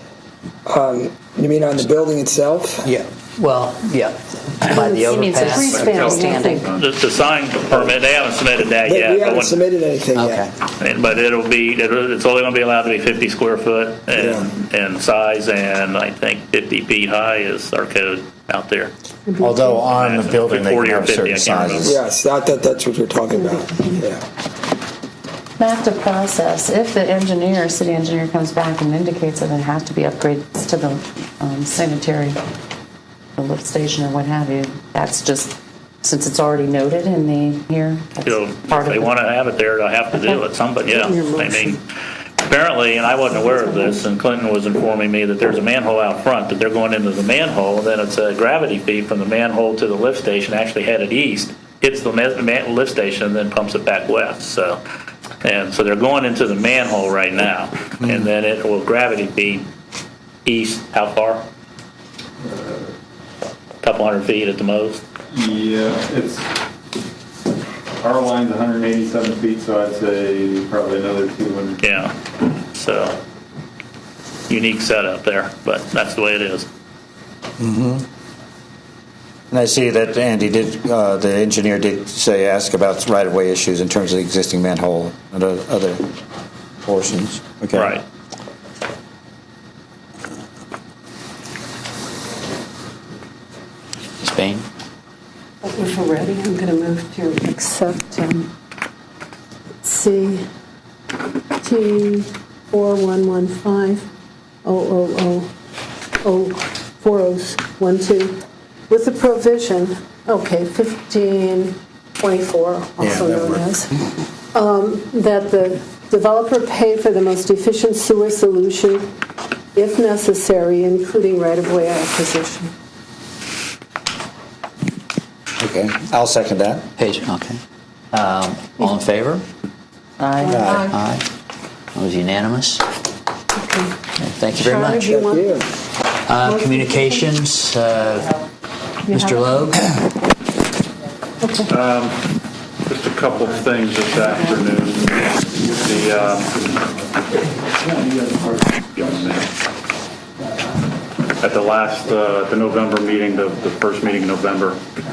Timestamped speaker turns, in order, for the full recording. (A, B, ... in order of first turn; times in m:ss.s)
0:00.6-0:02.9 A
0:02.8-0:06.6 B
0:04.7-0:06.7 C
0:05.1-0:06.6 D
0:05.6-0:06.9 E
0:06.7-0:09.6 F
0:07.7-0:07.9 A
0:08.8-0:10.5 A
0:10.1-0:10.5 B
0:10.8-0:18.9 F
0:14.1-0:14.5 A
0:19.2-0:19.9 C
0:19.4-0:22.0 G
0:19.9-0:21.9 F
0:21.8-0:24.2 A
0:23.3-0:24.1 C
0:25.6-0:32.4 D
0:33.4-0:39.2 D
0:38.2-0:41.8 F
0:40.2-0:40.4 D
0:40.9-0:41.8 C
0:42.4-0:54.8 F
0:43.4-0:44.0 C
0:55.4-0:59.6 F
1:00.4-1:01.4 F
1:02.4-1:02.9 E
1:03.8-1:05.0 F
1:05.3-1:06.5 E
1:08.0-1:11.8 E
1:11.8-1:12.1 F
1:12.7-1:13.2 F
1:14.5-1:16.7 F
1:17.6-1:18.0 G
1:19.5-1:26.1 G
1:26.8-1:28.0 G
1:27.7-1:28.0 F
1:34.2-1:34.6 B
1:35.6-1:38.5 C
1:39.8-1:40.4 C
1:41.6-1:44.0 C
1:44.6-1:45.5 C
1:46.2-1:53.9 C
1:53.0-1:53.7 G
1:54.5-1:59.1 C
1:59.7-2:02.7 C
2:05.6-2:06.9 G
2:07.0-2:07.6 B
2:08.1-2:09.4 B
2:10.2-2:10.8 D
2:10.4-2:10.8 C
2:10.5-2:10.9 G
2:10.9-2:11.2 B
2:11.9-2:12.8 B
2:13.6-2:13.9 C
2:14.2-2:15.1 B
2:14.5-2:15.6 C
2:15.0-2:15.7 A
2:16.2-2:18.4 B
2:16.4-2:17.4 C
2:19.1-2:19.6 C
2:19.1-2:20.0 B
2:21.4-2:21.7 C
2:21.7-2:22.2 E
2:22.8-2:26.8 E
2:28.0-2:29.5 E
2:31.4-2:34.8 E